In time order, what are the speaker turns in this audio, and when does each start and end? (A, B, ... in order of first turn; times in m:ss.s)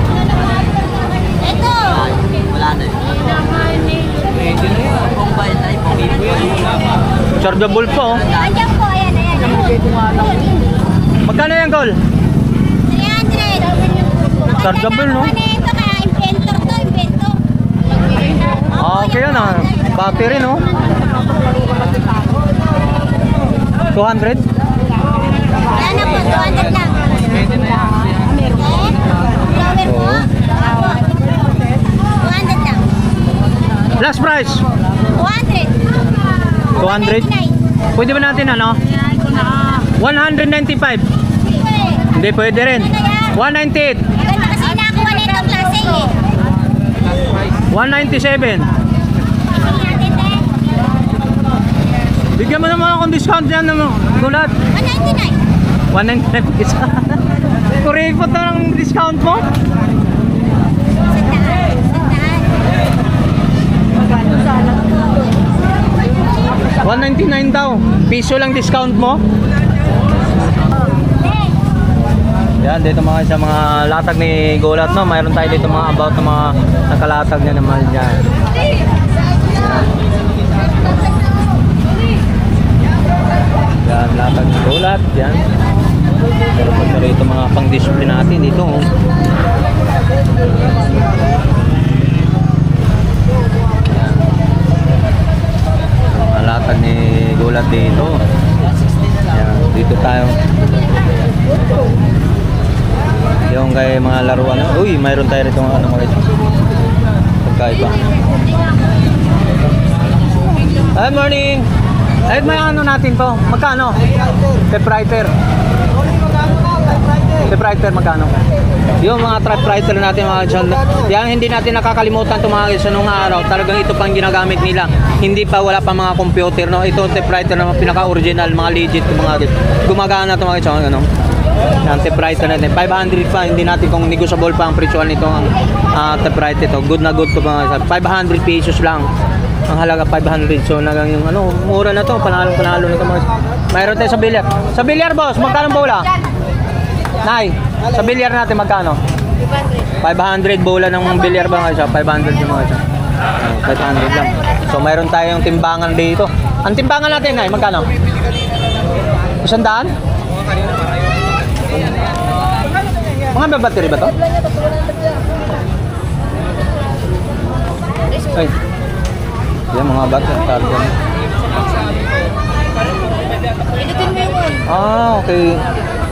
0:01.6-0:02.0 A
0:07.4-0:08.4 B
0:08.4-0:10.4 A
0:11.2-0:12.0 B
0:12.9-0:13.7 A
0:14.5-0:15.4 B
0:15.4-0:17.4 A
0:18.7-0:20.7 B
0:23.9-0:24.5 B
0:25.8-0:29.0 A
0:29.7-0:30.3 B
0:30.7-0:31.1 A
0:32.2-0:32.8 A
0:33.9-0:34.6 B
0:35.2-0:35.7 A
0:36.7-0:38.8 B
0:39.5-0:41.1 B
0:42.1-0:44.1 B
0:44.3-0:46.2 A
0:47.7-0:48.7 B
0:49.7-0:50.5 A
0:52.4-0:54.6 B
0:54.8-0:55.4 A
0:55.9-0:57.2 B
0:57.7-0:59.5 B
1:01.1-1:02.6 A
1:06.8-1:09.2 B
1:12.6-1:18.3 B
1:19.5-1:19.9 B
1:23.8-1:25.5 B
1:26.6-1:28.9 B
1:33.9-1:34.2 B
1:36.1-1:38.2 B
1:39.3-1:40.4 B
1:43.5-1:46.3 B
1:47.4-1:48.0 B
1:50.9-1:51.7 B
1:52.2-1:54.0 B
1:54.6-1:55.3 B
1:57.4-1:58.3 B
1:59.0-2:11.1 B
2:11.8-2:19.1 B
2:19.7-2:26.1 B
2:27.2-2:29.0 B
2:30.0-2:32.8 B
2:33.4-2:37.9 B
2:39.4-2:39.9 B
2:43.3-2:44.2 B
2:48.3-2:48.5 B
2:49.7-2:51.0 B
2:54.6-2:55.6 B